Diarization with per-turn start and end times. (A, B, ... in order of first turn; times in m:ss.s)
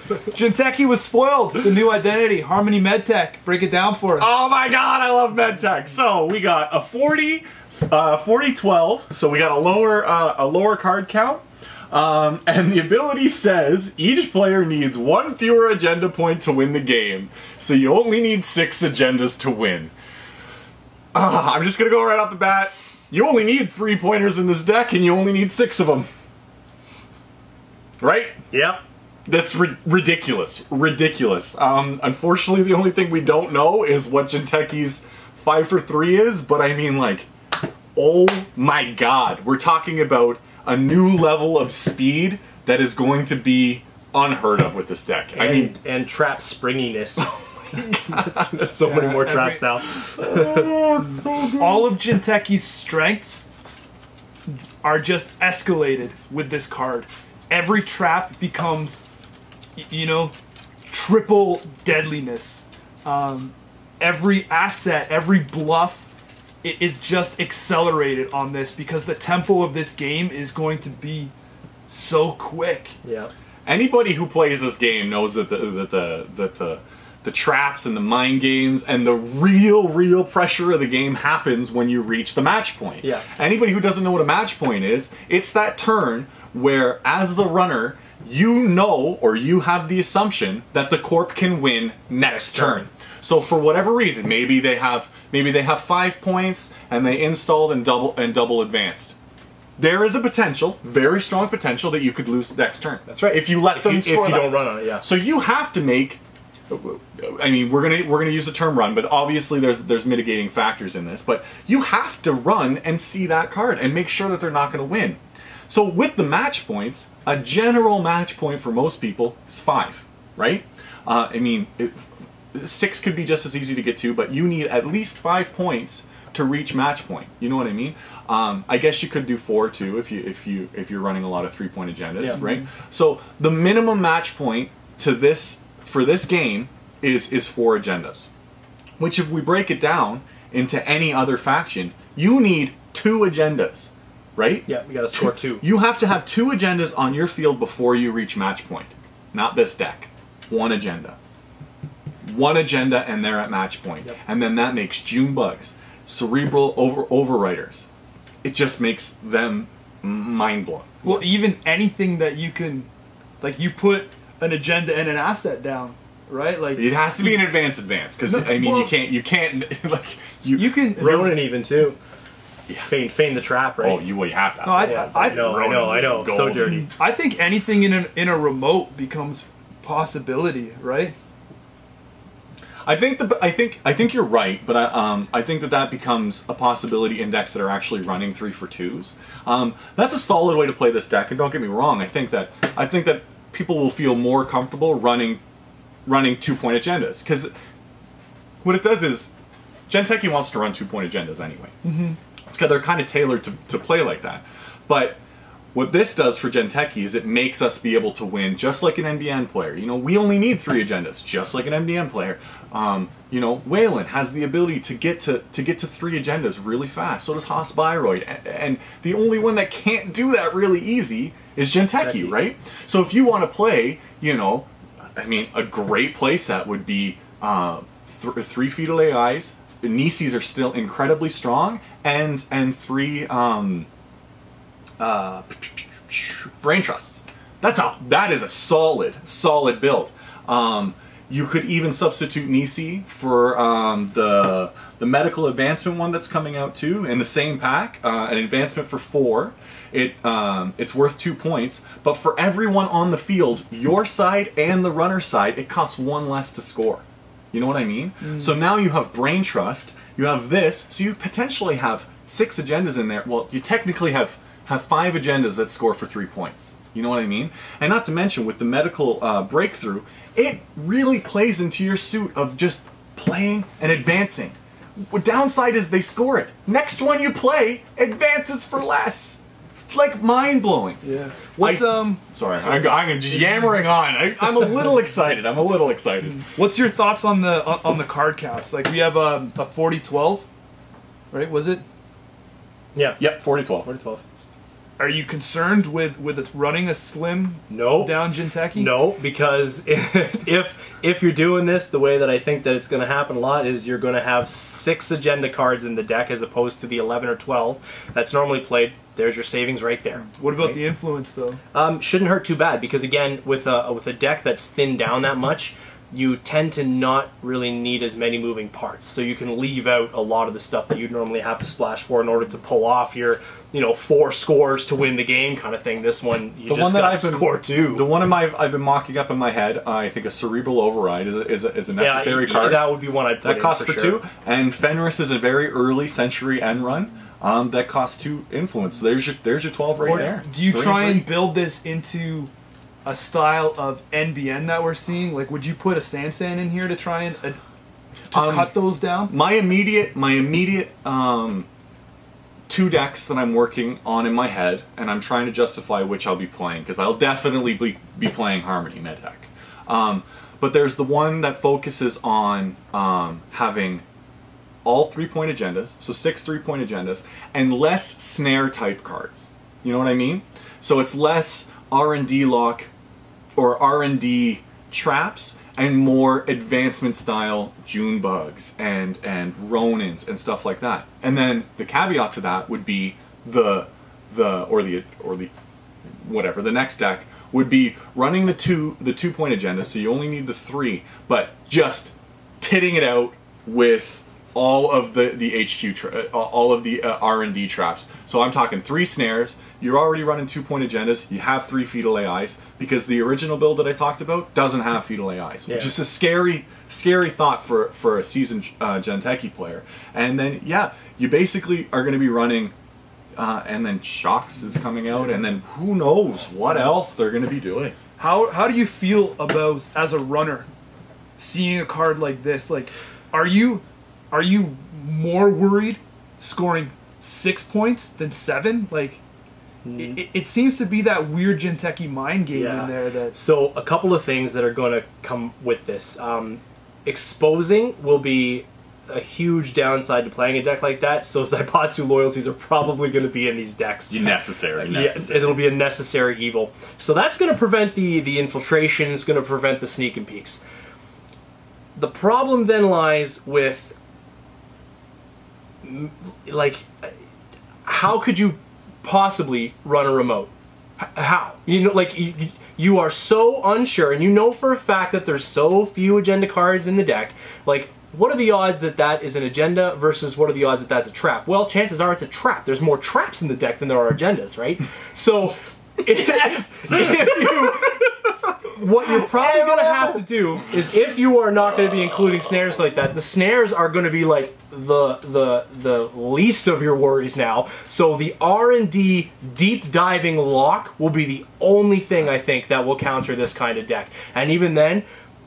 0:00.2-0:04.3 A
0:04.2-0:19.9 B
0:21.1-0:26.1 B
0:28.0-0:28.4 B
0:28.5-0:28.8 C
0:29.2-0:37.3 B
0:37.9-0:45.8 B
0:45.3-0:47.3 C
0:47.2-0:48.8 B
0:48.0-0:50.7 C
0:48.8-0:49.8 A
0:50.0-0:51.9 B
0:51.6-0:53.5 A
0:54.5-0:59.0 A
0:59.8-1:00.3 A
1:00.9-1:06.1 A
1:06.6-1:11.3 A
1:11.9-1:13.0 A
1:13.0-1:13.3 C
1:13.6-1:39.2 B
1:32.3-1:32.9 C
1:39.8-2:18.3 B
1:43.1-1:45.0 C
2:19.0-2:31.2 B
2:24.7-2:25.6 C
2:32.2-2:37.9 B
2:38.4-2:41.2 B
2:41.0-2:42.9 A
2:43.4-2:47.6 A
2:46.7-2:50.8 B
2:48.2-2:48.9 A
2:50.5-2:51.4 A
2:51.0-2:52.0 C
2:52.8-2:54.0 C
2:53.8-2:56.8 B
2:54.6-2:55.6 A
2:54.8-2:56.9 C
2:56.6-3:01.1 A
3:02.8-3:15.4 B
3:16.0-3:17.5 B
3:18.6-3:19.3 B
3:19.9-3:21.7 B
3:21.8-3:22.2 A
3:22.5-3:25.2 B
3:25.7-3:53.9 B
3:42.0-3:42.4 C
3:55.0-4:39.4 B
4:18.2-4:18.5 A
4:39.9-4:41.0 B
4:41.0-4:43.6 A
4:41.6-4:46.4 B
4:46.4-4:50.4 A
4:51.3-4:51.8 A
4:52.9-4:53.2 C
4:53.2-4:53.9 B
4:53.8-4:54.2 C
4:55.0-4:58.9 A
4:57.7-5:10.8 C
5:10.3-5:11.6 A
5:11.7-5:28.1 C
5:26.7-5:41.3 B
5:32.0-5:34.2 C
5:40.0-5:42.5 A
5:43.0-5:47.6 A
5:48.3-5:49.3 A
5:48.3-5:48.7 B
5:49.3-5:51.7 B
5:52.7-6:04.0 B
6:04.8-6:12.9 B
6:13.6-6:25.5 B
6:26.1-6:52.7 B
6:45.7-6:46.0 C
6:53.4-6:58.0 B
6:58.2-7:00.7 A
7:01.4-7:09.2 A
7:09.8-7:10.2 C
7:10.0-7:13.3 A
7:12.5-7:24.3 C
7:24.1-7:25.6 B
7:24.8-7:30.6 C
7:32.0-7:33.9 C
7:35.8-7:37.1 C
7:37.8-7:58.1 C
7:58.6-8:15.0 C
7:59.2-8:00.2 B
8:01.8-8:02.4 B